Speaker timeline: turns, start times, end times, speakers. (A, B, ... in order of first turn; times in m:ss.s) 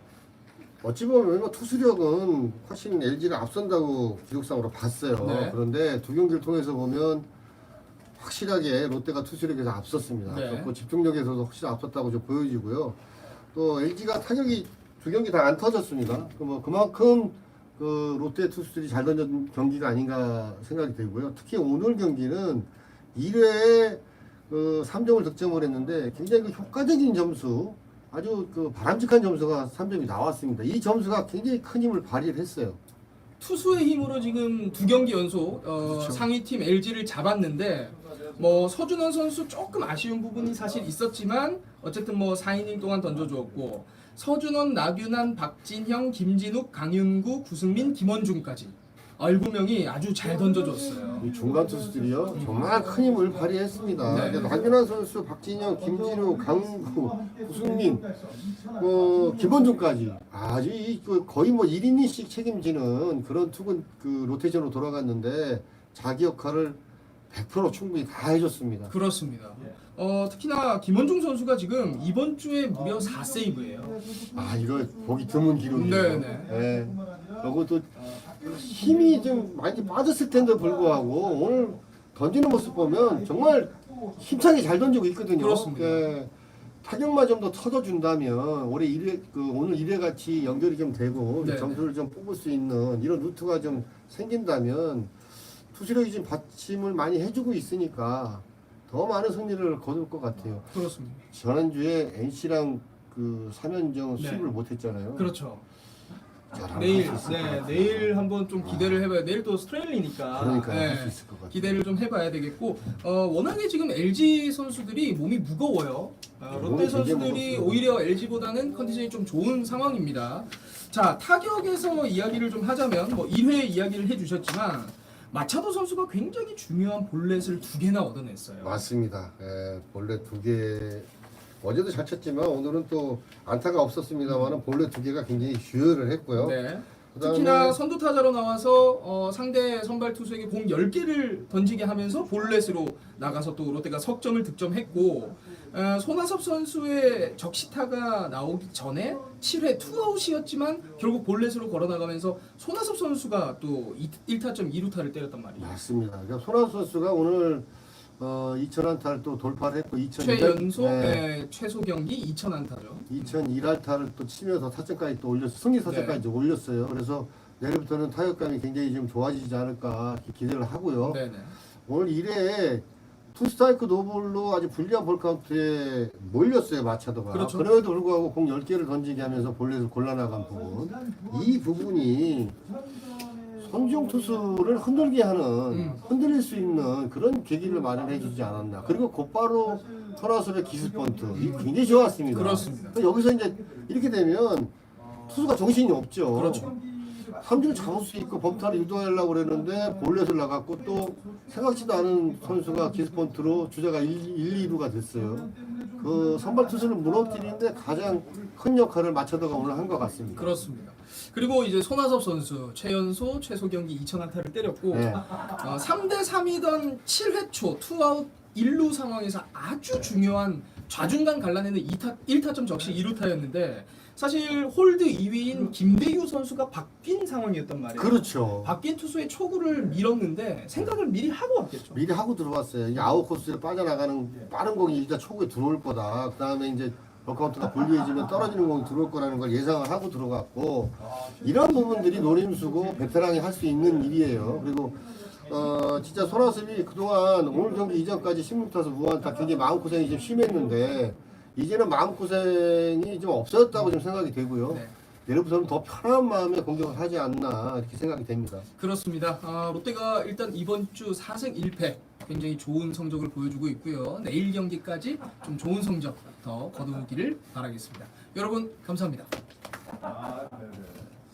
0:00.8-0:07.3 A
0:05.2-0:05.6 B
0:08.2-0:13.0 A
0:10.3-0:10.7 B
0:13.5-0:32.8 A
0:33.4-0:51.3 B
0:35.8-0:36.3 A
0:50.2-0:54.8 C
0:51.2-0:58.1 A
0:52.4-0:52.7 B
0:54.1-0:54.5 B
0:55.5-1:00.0 C
0:58.8-1:08.9 A
1:08.9-1:14.0 B
1:12.7-1:21.8 C
1:14.3-1:26.3 A
1:15.7-1:16.5 B
1:22.4-1:24.6 C
1:25.4-1:26.1 B
1:26.8-1:35.1 A
1:31.4-1:31.8 B
1:35.7-1:40.8 A
1:40.7-1:41.2 B
1:41.3-1:45.3 A
1:44.2-1:44.5 B
1:45.2-1:45.6 B
1:46.5-1:49.1 A
1:46.7-2:08.8 B
1:50.3-1:51.8 A
1:56.5-1:57.9 A
2:08.6-2:11.1 A
2:11.6-2:16.6 A
2:14.3-2:14.5 B
2:16.3-2:35.8 B
2:17.1-2:17.8 A
2:22.4-2:22.6 C
2:25.1-2:25.7 C
2:35.6-2:37.7 A
2:38.2-2:41.2 A
2:40.2-2:43.3 B
2:43.1-2:51.2 A
2:45.8-2:46.2 B
2:51.0-2:51.6 B
2:51.9-3:02.6 A
2:57.3-2:57.7 B
3:00.3-3:06.9 C
3:03.6-3:16.8 A
3:05.7-3:06.0 B
3:07.6-3:09.1 C
3:09.6-3:14.0 C
3:11.4-3:11.7 B
3:12.3-3:13.0 B
3:15.0-3:15.5 C
3:16.3-3:16.7 B
3:16.5-3:23.7 C
3:17.4-3:30.6 A
3:24.4-3:28.5 C
3:29.5-3:30.3 C
3:30.4-3:52.0 B
3:34.9-3:35.4 A
3:48.0-3:48.8 A
3:51.9-4:18.7 A
4:01.0-4:08.4 C
4:09.3-4:10.8 C
4:18.8-4:29.3 B
4:30.0-4:30.9 C